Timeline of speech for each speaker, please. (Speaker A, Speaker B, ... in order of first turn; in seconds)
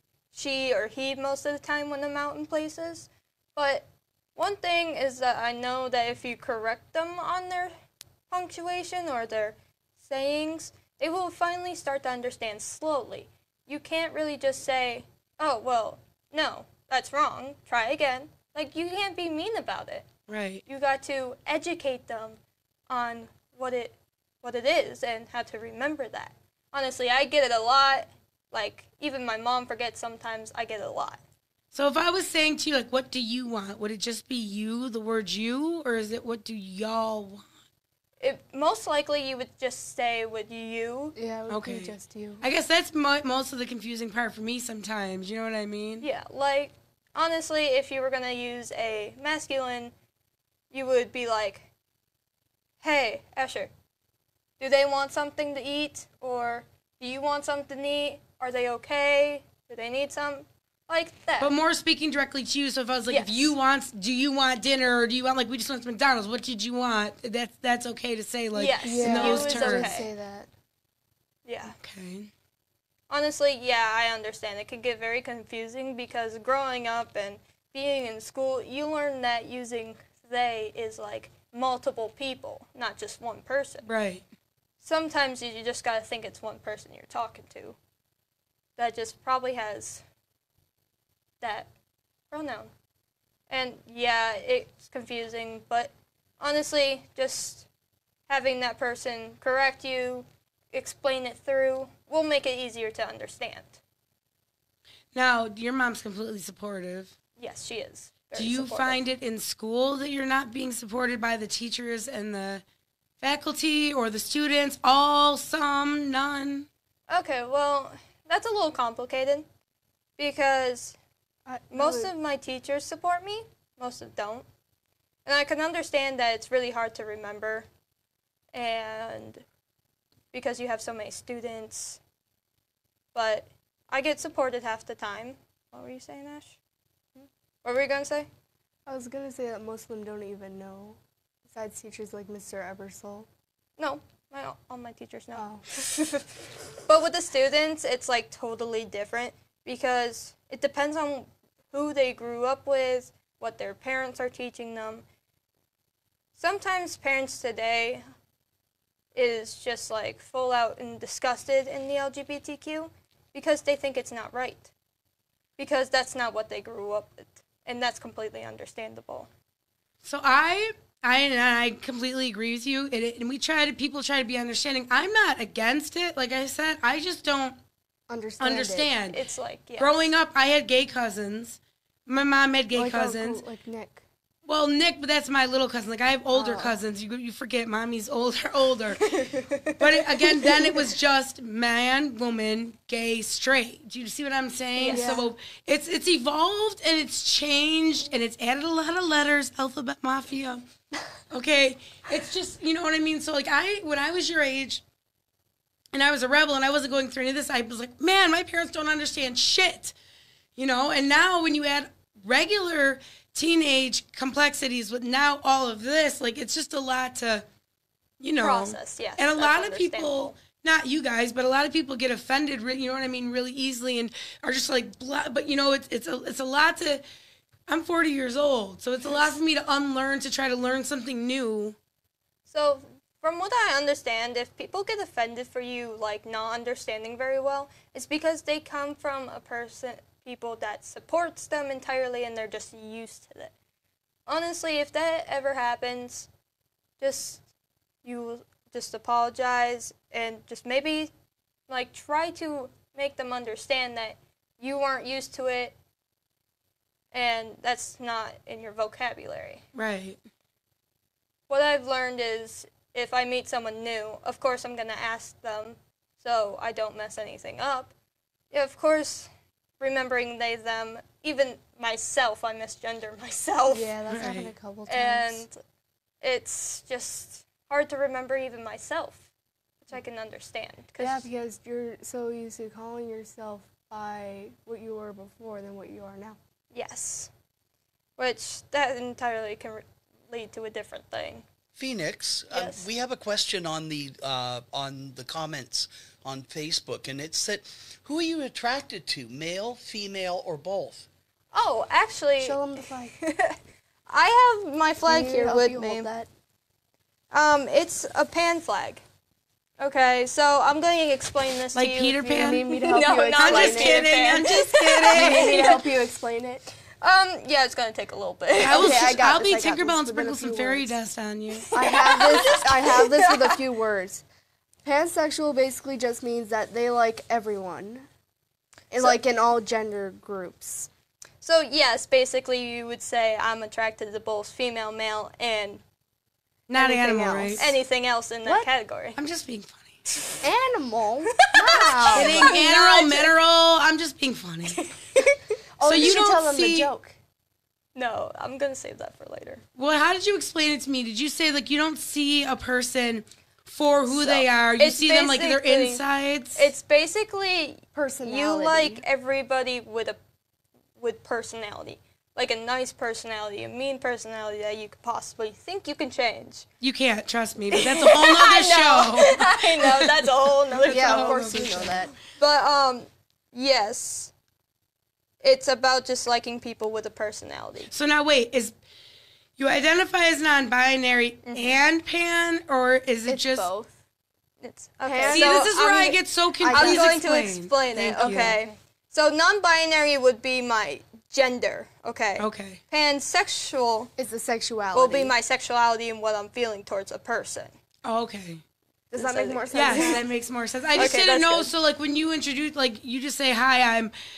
Speaker A: 0.3-7.7, 8.3-20.1, 20.6-31.2, 38.2-41.1, 46.0-49.9, 50.7-51.7, 52.8-53.7, 54.6-61.5, 63.1-63.5, 68.5-70.1, 71.5-71.7, 73.1-83.9, 84.8-87.8, 88.8-90.0, 91.4-91.7, 92.3-92.7, 93.5-97.7, 98.3-103.8, 107.4-109.0, 117.1-119.5, 120.2-121.0, 121.7-124.5, 125.2-127.7, 128.5-129.4, 130.3-132.0, 133.1-136.6, 137.6-138.3, 143.8-146.2, 146.8-155.0, 156.3-158.0, 159.1-164.7, 165.6-169.3, 179.1-180.1, 194.8-195.2, 218.4-220.3, 232.5-243.5, 244.3-246.3, 247.0-247.4, 248.0-251.1, 251.7-255.8, 257.1-259.6, 261.5-267.9, 268.5-273.9, 274.9-275.6, 276.2-279.2, 279.8-281.2, 286.7-287.3, 288.2-291.4, 292.5-292.8, 301.5-303.6, 304.1-306.1, 307.3-309.0, 309.8-315.8, 317.0-319.1, 321.7-323.6, 331.4-335.8, 337.6-339.2, 341.4-343.3, 344.8-345.3, 347.9-349.6, 354.1-356.0, 356.6-360.2, 361.0-366.6, 367.7-374.3, 375.4-377.9, 381.4-381.8, 384.6-386.2, 386.7-394.1, 394.9-397.7, 399.1-400.2, 400.9-401.7
Speaker B: 20.3-20.6, 31.7-37.4, 41.5-46.0, 61.4-70.0, 71.8-72.3, 83.8-84.2, 105.1-107.1, 108.3-112.6, 113.2-116.7, 170.0-177.6, 178.4-179.2, 179.8-183.4, 184.4-189.2, 189.8-200.6, 201.3-204.8, 205.9-209.9, 210.6-217.4, 218.2-227.0, 227.7-231.8, 259.7-260.2, 274.1-274.5, 311.7-312.6, 313.4-315.7, 318.6-321.8, 336.7-337.7, 339.1-340.1, 342.1-344.9, 345.8-346.9, 349.8-356.7, 366.8-371.9, 377.9-378.7, 379.6-383.7, 385.3-388.6, 392.4-392.8, 398.0-398.6, 399.7-404.1
Speaker C: 41.1-42.4, 68.8-70.5, 121.5-122.1, 138.8-143.3, 145.3-145.7, 178.1-178.9, 182.7-184.0, 186.3-186.8, 189.1-190.8, 194.9-195.3, 273.7-275.4, 281.0-286.4, 302.4-303.1, 305.1-306.3, 312.3-314.1, 315.1-316.7, 318.6-320.9, 321.7-324.2, 324.8-328.1, 328.9-330.9, 336.8-337.7, 340.4-342.5, 345.8-347.1, 357.9-359.0, 370.9-372.1, 383.3-383.9, 385.0-385.7, 386.6-387.2, 394.2-395.3, 399.1-400.2
Speaker D: 291.7-301.1